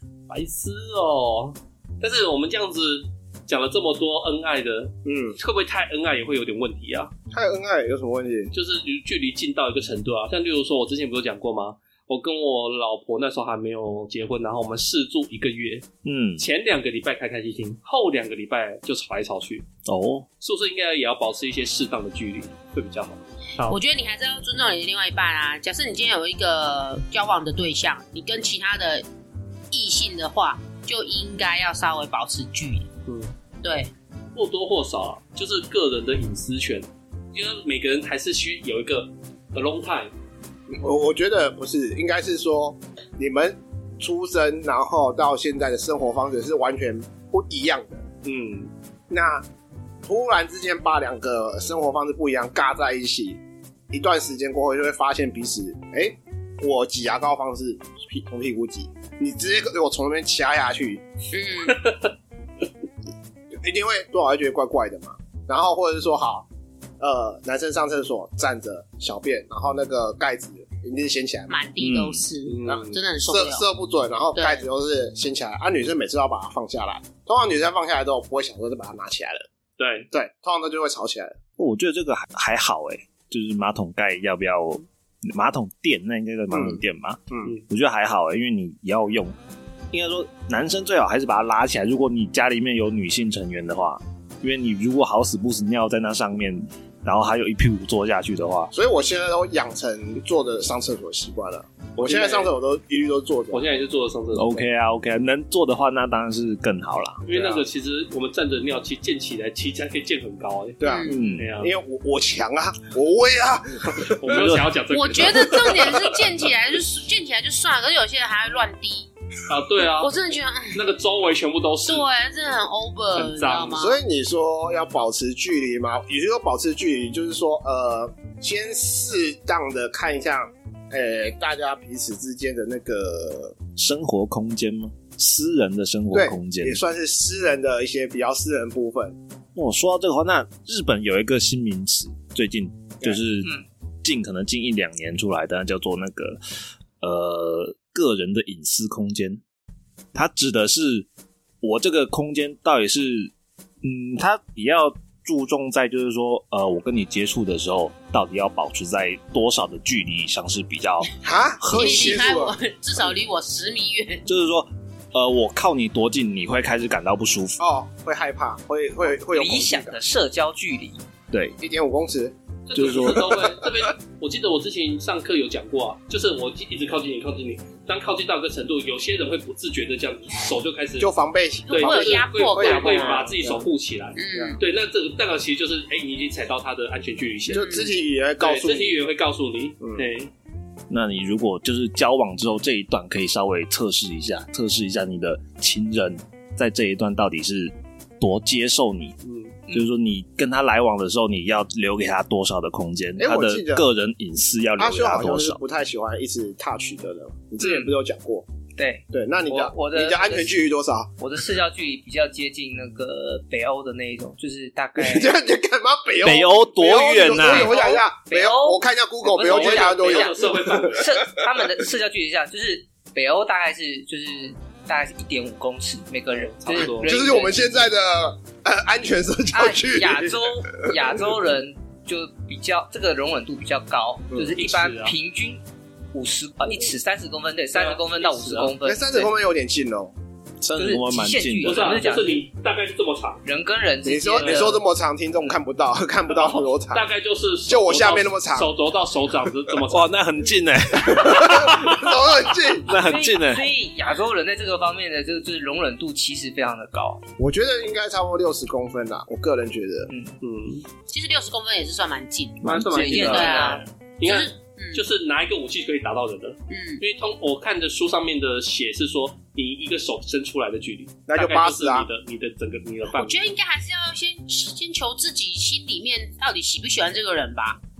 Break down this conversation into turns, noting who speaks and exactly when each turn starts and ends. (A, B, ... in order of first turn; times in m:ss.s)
0:00.3-0:07.1 A
0:05.0-0:05.4 B
0:07.3-0:08.5 B
0:08.5-0:15.9 A
0:16.0-0:16.4 C
0:16.4-0:19.7 A
0:19.8-0:20.3 C
0:20.4-0:23.8 A
0:23.7-0:29.0 D
0:29.7-0:32.9 D
0:33.1-0:33.3 A
0:33.6-0:33.9 D
0:34.3-0:40.1 A
0:40.7-0:48.0 B
0:48.2-0:48.7 A
0:49.1-0:49.4 B
0:50.0-1:01.0 B
1:01.3-1:01.9 D
1:01.6-1:02.0 A
1:03.6-1:06.5 B
1:07.0-1:11.5 B
1:11.5-1:13.6 D
1:11.8-1:12.9 A
1:12.6-1:19.5 B
1:14.3-1:14.6 D
1:19.8-1:20.1 A
1:20.1-1:21.4 B
1:21.6-1:29.3 C
1:26.5-1:27.5 B
1:29.9-1:38.7 C
1:38.7-1:43.7 B
1:42.0-1:42.5 A
1:43.5-1:44.6 A
1:44.3-1:47.2 C
1:47.2-1:50.8 A
1:47.3-1:47.6 B
1:50.8-1:54.3 B
1:50.8-1:51.2 D
1:51.1-1:51.5 C
1:51.4-1:51.7 A
1:54.0-1:56.0 A
1:54.3-1:54.7 C
1:54.9-1:59.1 D
1:55.7-1:56.3 B
1:59.5-2:00.1 A
2:00.0-2:00.8 D
2:00.7-2:02.0 A
2:01.8-2:04.0 D
2:03.1-2:03.7 A
2:03.7-2:13.6 B
2:13.7-2:16.8 C
2:16.1-2:19.2 B
2:19.5-2:26.4 C
2:27.0-2:29.4 C
2:30.1-2:31.1 C
2:31.6-2:33.3 C
2:33.8-2:41.1 C
2:41.2-2:42.5 B
2:41.6-2:42.2 C
2:41.7-2:44.2 D
2:44.2-2:47.6 C
2:47.6-2:50.0 B
2:49.3-2:51.0 E
2:51.6-2:52.3 B
2:52.7-3:01.1 A
2:52.7-2:53.3 C
2:53.0-2:53.8 B
3:01.0-3:03.7 B
3:01.7-3:03.3 D
3:01.7-3:07.8 A
3:04.2-3:04.6 D
3:04.3-3:04.6 B
3:07.5-3:09.0 B
3:07.5-3:08.0 D
3:08.4-3:10.3 A
3:09.8-3:10.0 B
3:10.9-3:19.1 C
3:19.2-3:19.6 A
3:19.7-3:25.6 C
3:23.2-3:23.8 B
3:24.8-3:28.5 B
3:27.6-3:27.9 E
3:28.8-3:30.7 E
3:29.1-3:31.1 B
3:31.2-3:35.3 E
3:35.0-3:41.0 B
3:36.2-3:37.7 C
3:37.3-3:47.9 E
3:39.3-3:41.4 A
3:46.3-3:47.1 A
3:46.9-3:51.0 B
3:49.5-3:55.6 E
3:54.5-3:55.1 A
3:56.1-3:59.3 E
3:57.7-3:58.7 A
3:58.8-4:00.1 B
4:00.6-4:02.0 C
4:00.8-4:02.4 E
4:01.6-4:03.4 A
4:03.4-4:04.8 E
4:04.0-4:07.0 B
4:04.4-4:04.6 A
4:06.3-4:10.1 A
4:07.6-4:08.7 B
4:09.9-4:12.1 C
4:11.1-4:12.8 B
4:12.9-4:13.6 C
4:12.9-4:17.2 E
4:17.4-4:20.1 B
4:20.1-4:20.3 E
4:20.4-4:20.8 A
4:21.1-4:25.0 D
4:22.6-4:33.5 A
4:22.7-4:23.8 E
4:26.7-4:27.0 D
4:31.3-4:32.1 B
4:33.1-4:37.8 D